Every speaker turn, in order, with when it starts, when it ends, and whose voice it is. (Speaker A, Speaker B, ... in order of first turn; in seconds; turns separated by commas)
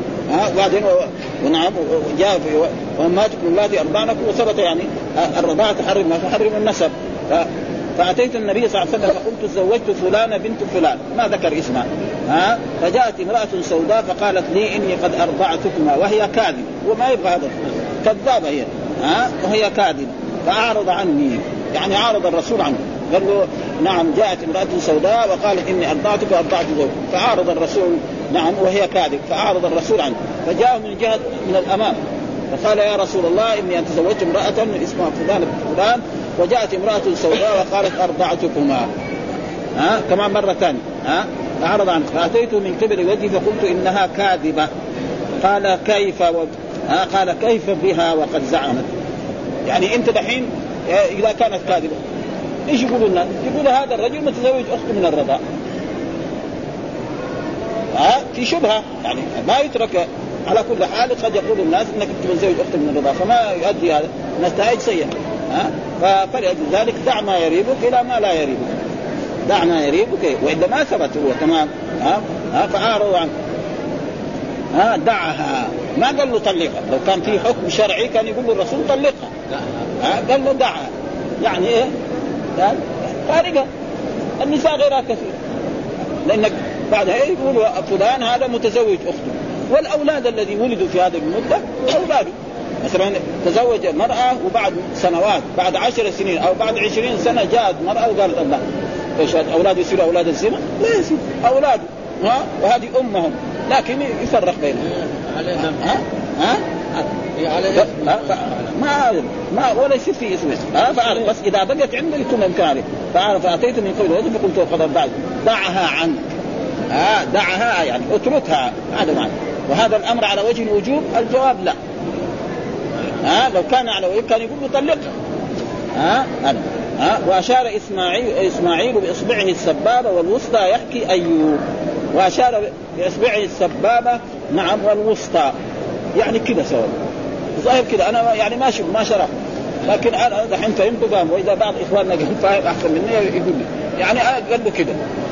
Speaker A: 0.3-32.0, Speaker A: 32.5-38.9, Speaker A: 39.8-44.7, Speaker A: 45.4-48.9, Speaker A: 49.7-52.0, Speaker A: 52.7-55.4, Speaker A: 57.9-68.8, Speaker A: 69.5-73.3, Speaker A: 74.7-79.3, Speaker A: 80.0-81.9, Speaker A: 82.6-83.7, Speaker A: 84.4-85.3, Speaker A: 86.2-98.6, Speaker A: 99.2-104.9, Speaker A: 105.6-107.1, Speaker A: 107.7-116.3, Speaker A: 116.9-121.8, Speaker A: 123.2-125.1, Speaker A: 126.0-131.6, Speaker A: 132.1-135.6, Speaker A: 136.2-136.9, Speaker A: 137.6-139.3, Speaker A: 139.8-145.0